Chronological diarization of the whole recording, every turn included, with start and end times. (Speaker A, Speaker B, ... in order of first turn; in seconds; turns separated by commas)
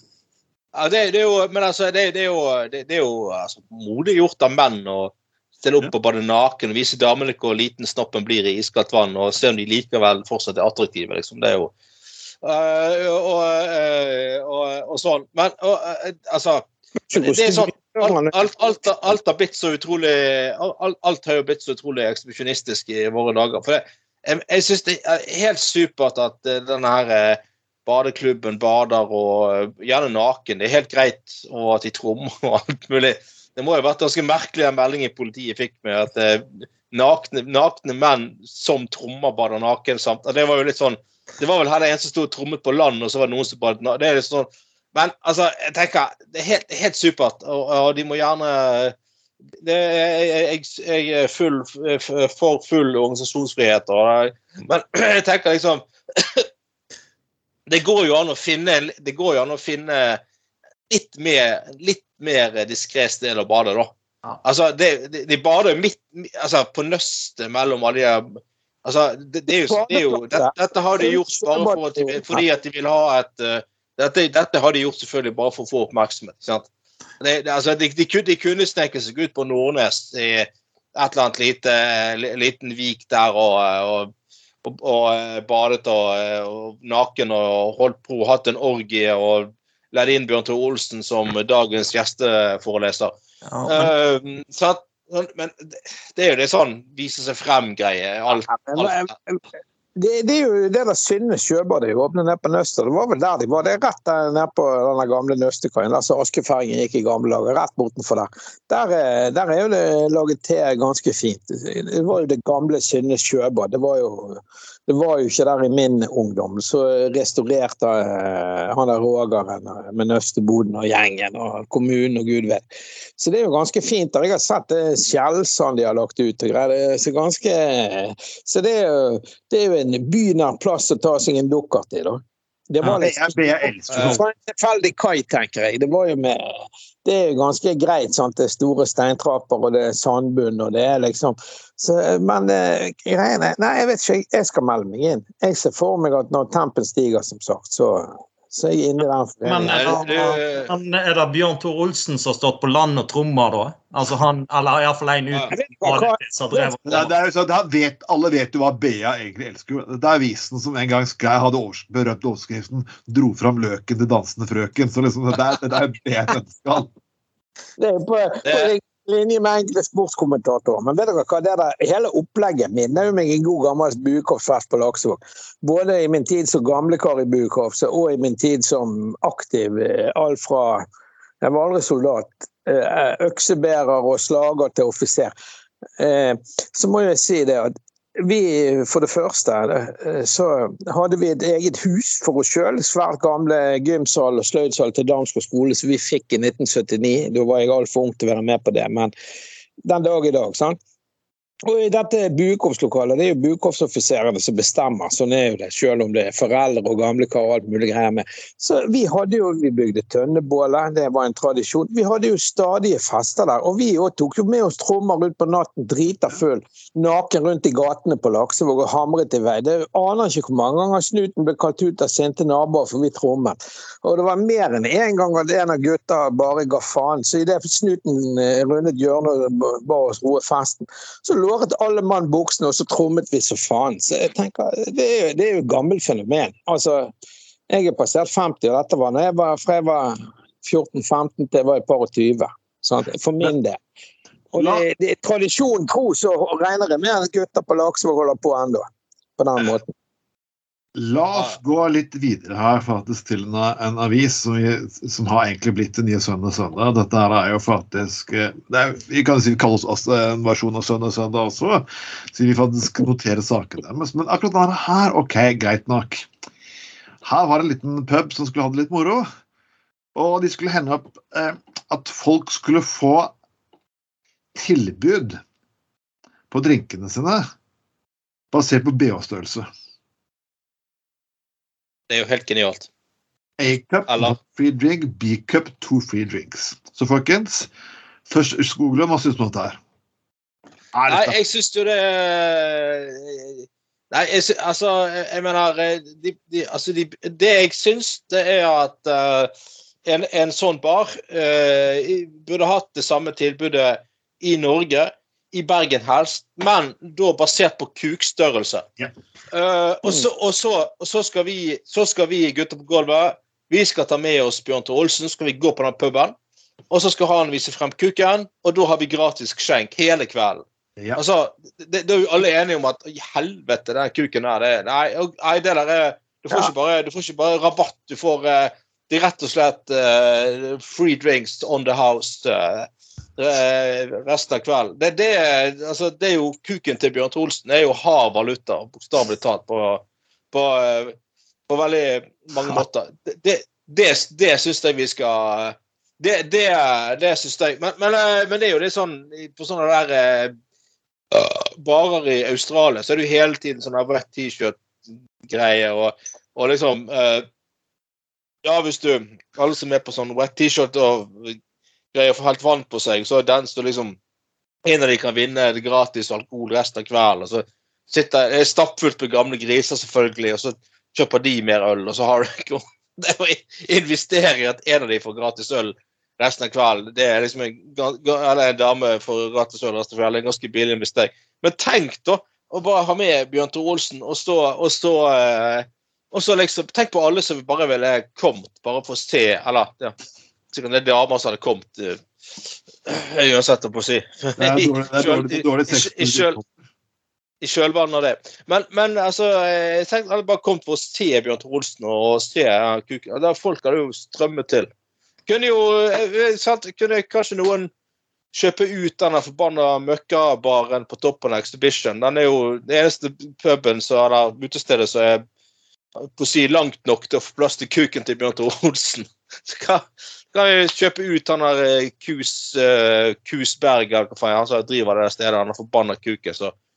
Speaker A: 0.7-11.7, Speaker A: 12.4-48.9, Speaker B: 17.1-18.4, Speaker A: 49.6-56.5, Speaker A: 57.7-60.2, Speaker A: 60.9-76.7, Speaker B: 69.5-72.4, Speaker A: 77.2-84.1, Speaker A: 84.6-99.1, Speaker C: 93.5-93.9, Speaker B: 98.3-99.4, Speaker B: 100.0-122.6, Speaker B: 123.2-150.3, Speaker D: 132.8-134.2, Speaker A: 133.9-134.2, Speaker C: 149.4-157.1, Speaker A: 149.7-150.7, Speaker B: 155.5-156.7, Speaker D: 156.8-166.9, Speaker B: 167.8-180.8, Speaker A: 168.4-168.7, Speaker B: 181.4-185.3, Speaker B: 186.0-199.1, Speaker B: 199.8-200.8, Speaker B: 201.7-237.1, Speaker B: 237.7-243.8, Speaker B: 244.5-248.8, Speaker D: 244.6-244.8, Speaker B: 249.4-249.9, Speaker D: 250.9-266.3, Speaker D: 267.2-269.3, Speaker D: 270.1-273.3, Speaker D: 274.5-275.4, Speaker D: 276.5-277.4, Speaker D: 278.5-279.7, Speaker A: 282.1-282.9, Speaker D: 283.6-287.7, Speaker A: 284.1-284.4, Speaker D: 288.3-289.8, Speaker D: 290.9-291.4, Speaker A: 291.1-299.5, Speaker A: 300.1-308.9, Speaker A: 309.5-316.3, Speaker A: 316.9-341.1, Speaker A: 341.7-350.5, Speaker A: 351.3-354.8, Speaker A: 355.4-357.4, Speaker A: 358.6-361.6, Speaker A: 362.1-364.2, Speaker A: 364.8-390.1, Speaker A: 390.7-392.2, Speaker A: 393.1-396.6, Speaker D: 394.6-396.7, Speaker A: 397.6-404.9, Speaker A: 405.5-407.9, Speaker A: 408.5-415.4, Speaker A: 416.2-426.7